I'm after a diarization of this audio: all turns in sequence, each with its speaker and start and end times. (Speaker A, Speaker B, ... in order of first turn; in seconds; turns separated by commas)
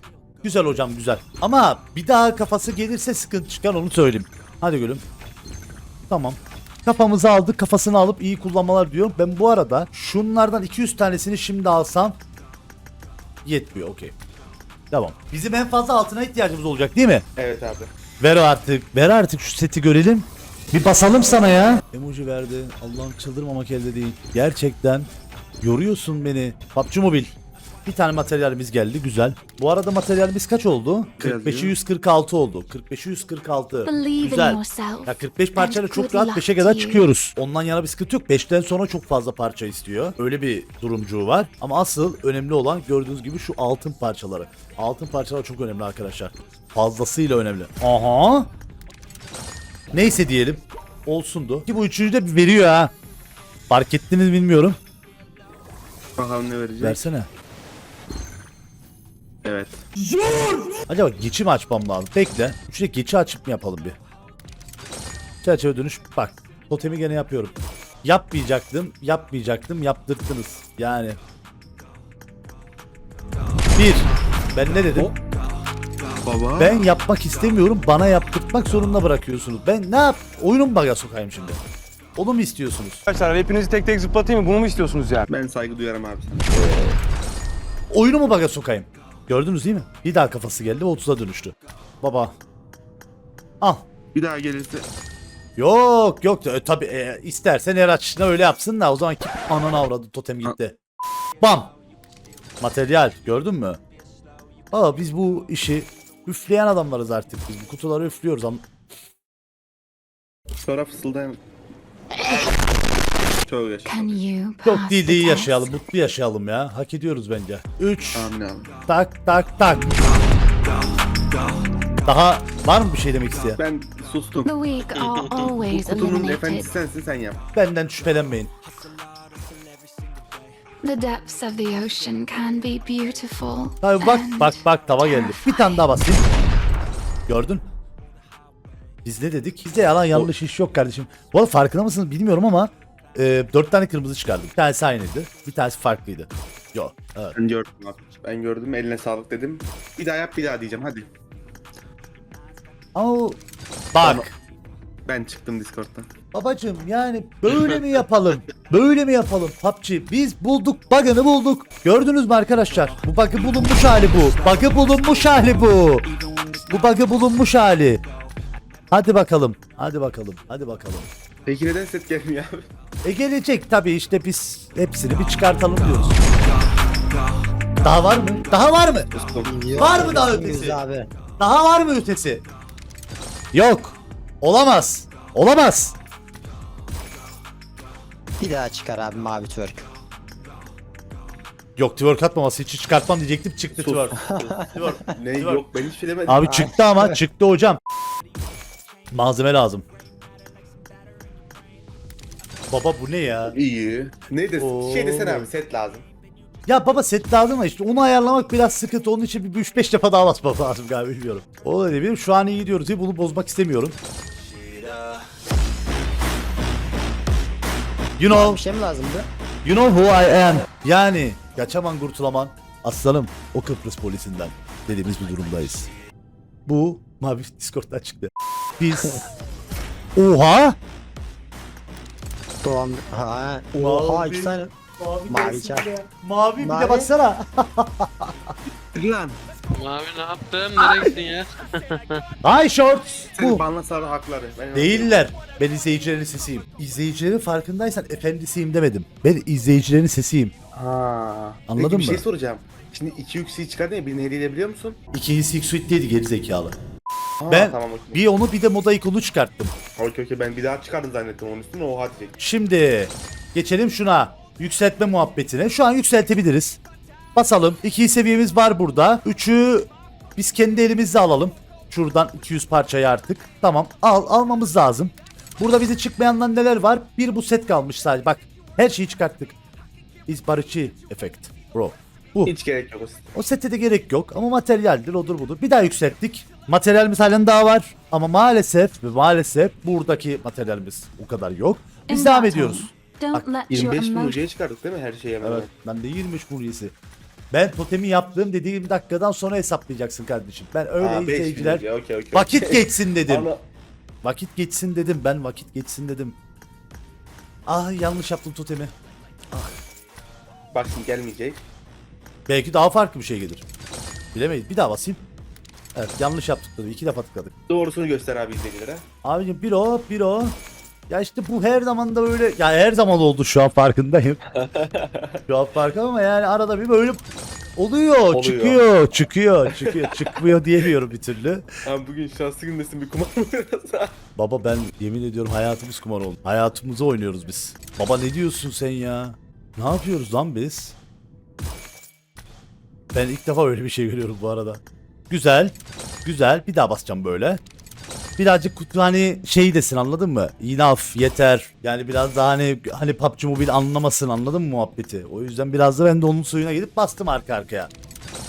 Speaker A: 0.4-5.0, Speaker A: 6.1-12.2, Speaker A: 13.4-14.1, Speaker A: 14.9-17.3, Speaker B: 17.4-17.9, Speaker A: 18.2-25.1, Speaker A: 25.6-27.3, Speaker A: 27.9-48.5, Speaker B: 31.2-31.8, Speaker C: 33.9-37.1, Speaker A: 49.9-52.9, Speaker A: 53.7-54.8, Speaker B: 56.2-57.0, Speaker A: 56.8-57.3, Speaker B: 59.4-59.9, Speaker A: 60.9-64.0, Speaker A: 65.4-71.2, Speaker A: 73.8-75.1, Speaker B: 76.2-76.8, Speaker A: 76.6-81.6, Speaker A: 82.2-83.0, Speaker D: 83.1-85.3, Speaker B: 85.3-86.6, Speaker A: 86.5-87.0, Speaker A: 87.9-92.3, Speaker B: 94.1-94.8, Speaker A: 95.6-100.8, Speaker A: 101.4-101.7, Speaker A: 102.6-103.8, Speaker A: 104.7-108.6, Speaker B: 110.6-111.4, Speaker B: 113.4-114.2, Speaker C: 113.9-115.7, Speaker A: 114.6-118.3, Speaker B: 118.2-118.7, Speaker A: 118.9-119.9, Speaker A: 122.0-123.6, Speaker B: 123.6-124.5, Speaker C: 124.4-126.7, Speaker E: 125.1-125.4, Speaker B: 125.5-127.4, Speaker A: 127.5-128.5, Speaker C: 130.8-136.0, Speaker A: 133.8-136.2, Speaker A: 137.3-137.7, Speaker A: 139.1-147.4, Speaker B: 147.4-151.1, Speaker A: 152.9-153.4, Speaker A: 153.9-154.3, Speaker B: 154.0-154.3, Speaker B: 155.1-156.1, Speaker A: 156.3-166.1, Speaker A: 166.7-168.0, Speaker A: 168.9-171.1, Speaker B: 171.5-172.7, Speaker A: 173.0-176.2, Speaker A: 177.8-179.1, Speaker B: 179.1-180.3, Speaker F: 179.4-181.1, Speaker A: 179.8-180.8, Speaker A: 181.4-182.4, Speaker A: 183.5-185.9, Speaker F: 188.4-189.9, Speaker A: 191.8-195.7, Speaker B: 193.7-194.5, Speaker F: 194.2-195.0, Speaker B: 195.1-196.7, Speaker A: 196.3-197.8, Speaker F: 196.5-197.2, Speaker A: 199.1-199.8, Speaker A: 202.7-203.6, Speaker B: 203.5-206.1, Speaker A: 204.6-205.5, Speaker A: 206.7-214.0, Speaker A: 218.2-218.6, Speaker F: 218.3-219.3, Speaker A: 219.7-225.9, Speaker A: 226.7-229.3, Speaker A: 230.2-230.8, Speaker F: 232.6-234.7, Speaker A: 233.8-238.3, Speaker F: 235.3-235.9, Speaker F: 236.6-237.1, Speaker B: 238.9-239.4, Speaker E: 239.7-242.2, Speaker A: 242.4-243.6, Speaker B: 243.4-245.2, Speaker A: 244.7-250.5, Speaker B: 250.7-255.0, Speaker A: 251.7-252.2, Speaker A: 255.1-256.8, Speaker B: 257.4-258.2, Speaker A: 257.5-259.7, Speaker B: 260.0-262.4, Speaker A: 262.4-266.8, Speaker A: 267.4-279.6, Speaker A: 280.3-282.5, Speaker B: 282.4-283.3, Speaker A: 283.4-293.5, Speaker C: 292.1-294.4, Speaker B: 293.7-295.7, Speaker A: 295.4-296.9, Speaker A: 297.5-303.5, Speaker B: 301.0-303.6, Speaker A: 304.2-306.4, Speaker A: 307.7-308.9, Speaker A: 309.5-309.8, Speaker B: 310.7-311.6, Speaker A: 312.5-313.6, Speaker A: 314.3-315.2, Speaker A: 315.9-317.5, Speaker B: 317.7-319.1, Speaker A: 319.2-320.6, Speaker A: 321.1-324.4, Speaker B: 324.5-325.4, Speaker A: 325.5-327.2, Speaker A: 327.8-331.7, Speaker B: 328.3-328.9, Speaker B: 329.7-330.1, Speaker B: 331.9-334.1, Speaker A: 334.4-340.9, Speaker A: 343.1-347.6, Speaker A: 348.4-357.9